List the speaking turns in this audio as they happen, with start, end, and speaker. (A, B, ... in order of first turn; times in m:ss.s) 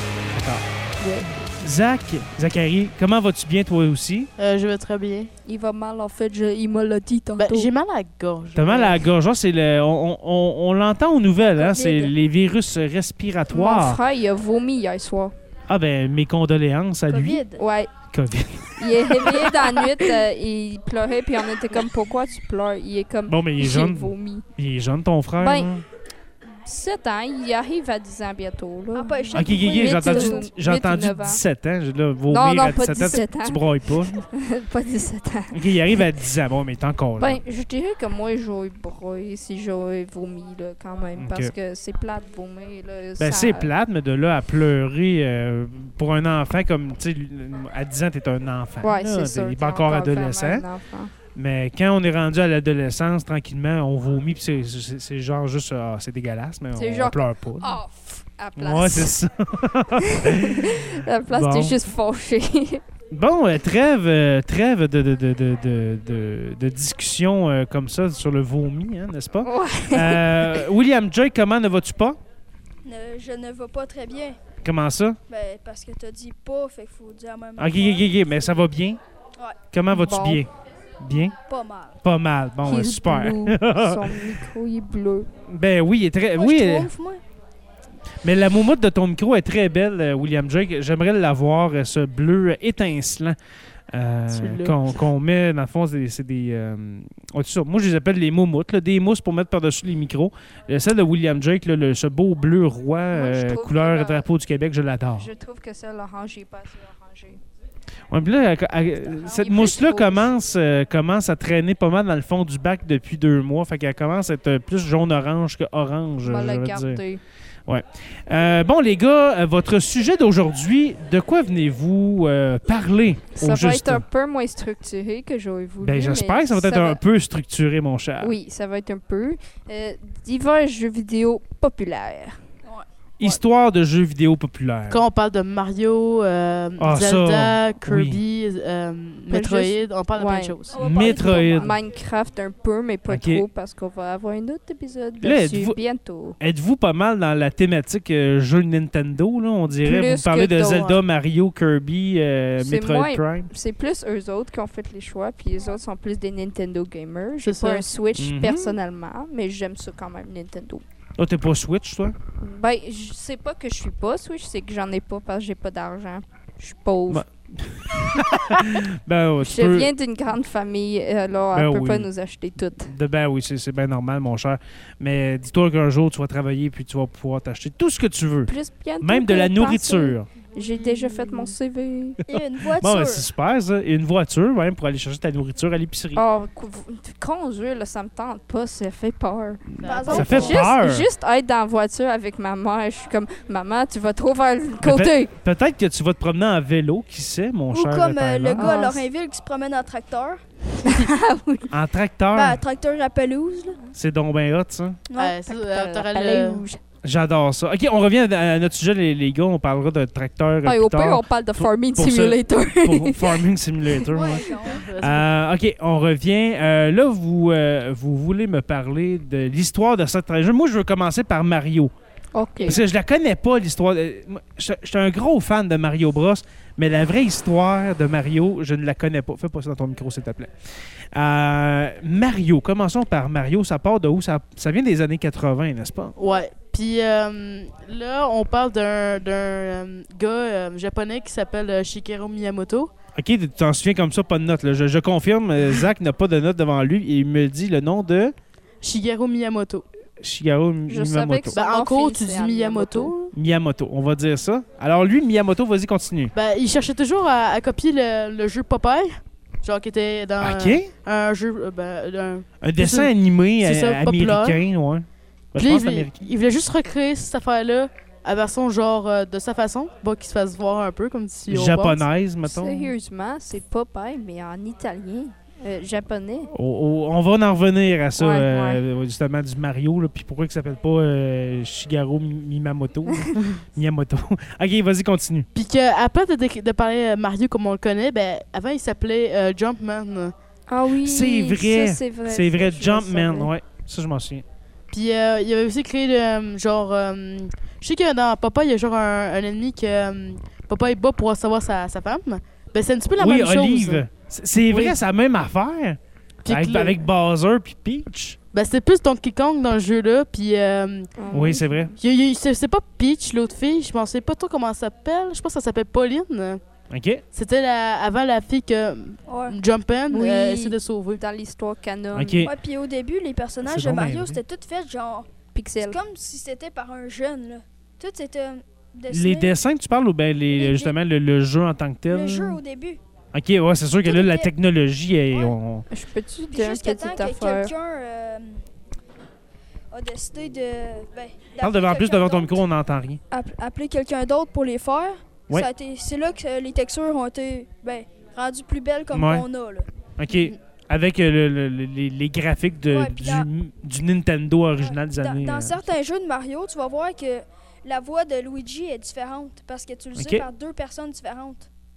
0:00.3-0:00.6 A
0:01.0-0:01.3 B
0:01.6-0:04.3 A
0:04.4-0:05.3 C
0:05.5-0:07.7 B
0:07.4-0:09.0 C
0:08.6-0:14.0 A
0:11.6-0:12.1 D
0:13.5-0:15.3 B
0:15.7-0:17.4 A
0:17.1-0:17.6 D
0:17.6-0:17.9 B
0:18.1-0:19.4 A
0:18.8-0:24.5 B
0:23.3-0:25.8 A
0:25.4-0:25.7 B
0:26.6-0:31.4 B
0:28.9-0:30.4 D
0:29.3-0:34.1 A
0:32.3-0:36.0 B
0:35.5-0:37.4 A
0:37.2-0:43.7 B
0:41.2-0:41.5 A
0:43.2-0:50.7 A
0:48.8-0:51.1 B
0:51.3-0:57.7 A
0:56.8-0:59.2 B
0:58.6-1:01.8 A
1:00.1-1:02.8 B
1:03.1-1:12.2 A
1:09.4-1:10.6 B
1:12.8-1:14.4 D
1:14.6-1:15.2 A
1:15.3-1:18.5 D
1:17.6-1:19.0 A
1:19.7-1:21.4 A
1:19.9-1:20.4 B
1:21.5-1:22.0 D
1:22.0-1:24.4 A
1:22.6-1:25.3 B
1:25.5-1:26.9 A
1:26.4-1:27.2 D
1:28.2-1:33.4 A
1:33.9-1:45.3 A
1:34.3-1:34.8 C
1:43.1-1:44.3 B
1:45.2-1:47.4 B
1:48.1-1:57.0 A
1:49.0-1:50.3 B
1:56.2-1:57.2 B
1:57.7-2:04.0 A
2:03.4-2:07.0 B
2:05.8-2:08.4 A
2:08.2-2:12.4 B
2:13.2-2:15.0 A
2:14.9-2:20.8 C
2:16.8-2:18.2 A
2:19.3-2:26.4 B
2:20.7-2:21.7 D
2:20.8-2:21.8 A
2:23.1-2:23.5 A
2:25.2-2:25.8 A
2:26.4-2:33.5 A
2:29.8-2:30.9 B
2:30.6-2:31.0 C
2:32.6-2:40.8 B
2:37.4-2:37.8 C
2:38.2-2:38.8 A
2:41.2-2:42.2 A
2:42.4-2:47.2 B
2:47.1-2:49.9 A
2:49.4-2:52.9 B
2:51.5-2:52.1 A
2:52.8-3:00.3 A
2:58.5-3:02.2 B
3:00.7-3:01.5 C
3:02.3-3:03.3 D
3:02.3-3:06.2 A
3:06.2-3:15.3 B
3:09.8-3:11.1 A
3:09.8-3:10.6 C
3:09.8-3:10.6 D
3:14.8-3:18.8 A
3:17.7-3:20.4 D
3:18.6-3:19.0 B
3:20.8-3:21.7 B
3:21.7-3:22.6 A
3:22.3-3:23.8 D
3:24.0-3:25.0 A
3:25.1-3:25.4 D
3:25.2-3:26.6 C
3:25.4-3:26.8 B
3:27.0-3:34.4 A
3:30.6-3:34.0 B
3:34.1-3:34.8 D
3:34.4-3:35.3 C
3:35.0-3:41.9 A
3:42.3-3:42.8 B
3:42.6-3:50.6 A
3:51.1-3:56.2 A
3:56.2-4:02.9 C
4:03.2-4:08.3 A
4:08.8-4:09.8 C
4:10.2-4:11.6 A
4:10.9-4:13.1 B
4:11.5-4:13.3 C
4:13.3-4:16.3 A
4:16.4-4:24.6 C
4:20.4-4:20.9 A
4:22.6-4:26.1 A
4:25.6-4:32.0 C
4:31.5-4:32.9 A
4:32.4-4:36.5 B
4:36.5-4:45.5 A
4:38.2-4:38.8 B
4:43.1-4:43.3 B
4:45.6-4:50.3 C
4:50.7-4:53.5 B
4:51.0-4:54.4 A
4:54.9-5:04.0 C
5:03.2-5:08.4 A
5:04.7-5:05.0 C
5:06.4-5:07.0 C
5:08.5-5:11.2 C
5:11.2-5:11.7 B
5:11.3-5:11.9 A
5:12.0-5:16.6 C
5:16.9-5:17.2 A
5:17.3-5:21.2 C
5:19.3-5:19.6 D
5:20.1-5:22.5 B
5:22.1-5:22.5 A
5:22.4-5:25.3 D
5:23.6-5:24.4 A
5:25.5-5:26.0 B
5:25.8-5:29.6 D
5:29.1-5:32.6 A
5:30.5-5:31.0 D
5:32.1-5:33.0 D
5:33.3-5:35.9 A
5:34.0-5:34.5 D
5:35.9-5:37.7 B
5:36.5-5:38.6 D
5:39.9-5:42.6 D
5:41.6-5:43.2 A
5:43.3-5:49.9 D
5:49.1-5:49.5 A
5:50.2-5:55.9 A
5:50.3-5:50.6 C
5:52.9-5:53.5 D
5:54.8-6:01.7 D
6:00.2-6:00.5 A